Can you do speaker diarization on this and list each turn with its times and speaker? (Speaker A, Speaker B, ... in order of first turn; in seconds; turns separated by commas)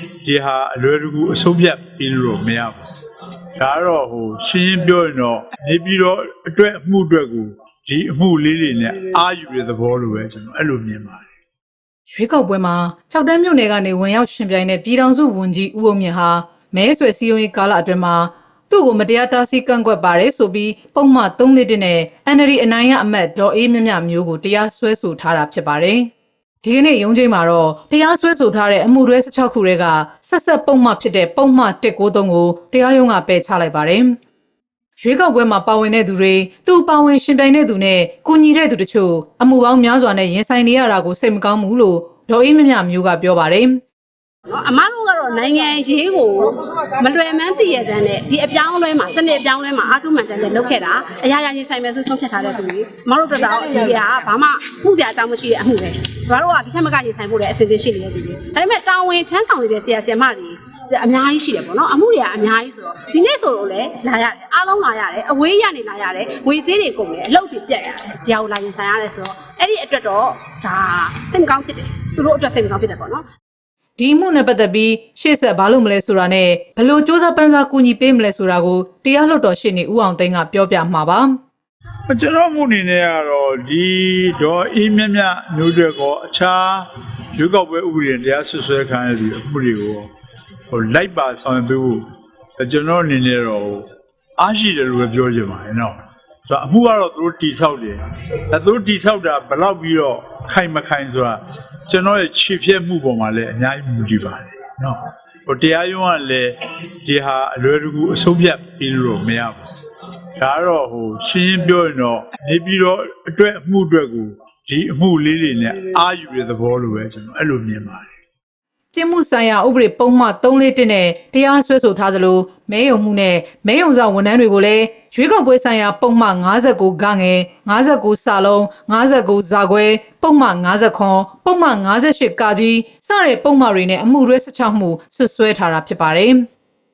Speaker A: 0.2-2.8, Speaker A: 3.6-11.3, Speaker B: 12.1-26.1, Speaker B: 26.6-34.2, Speaker B: 35.0-43.8, Speaker C: 44.5-73.2, Speaker B: 74.0-81.3, Speaker A: 82.1-90.1, Speaker A: 90.7-92.0, Speaker A: 92.6-109.6, Speaker A: 110.4-118.2, Speaker B: 118.9-136.5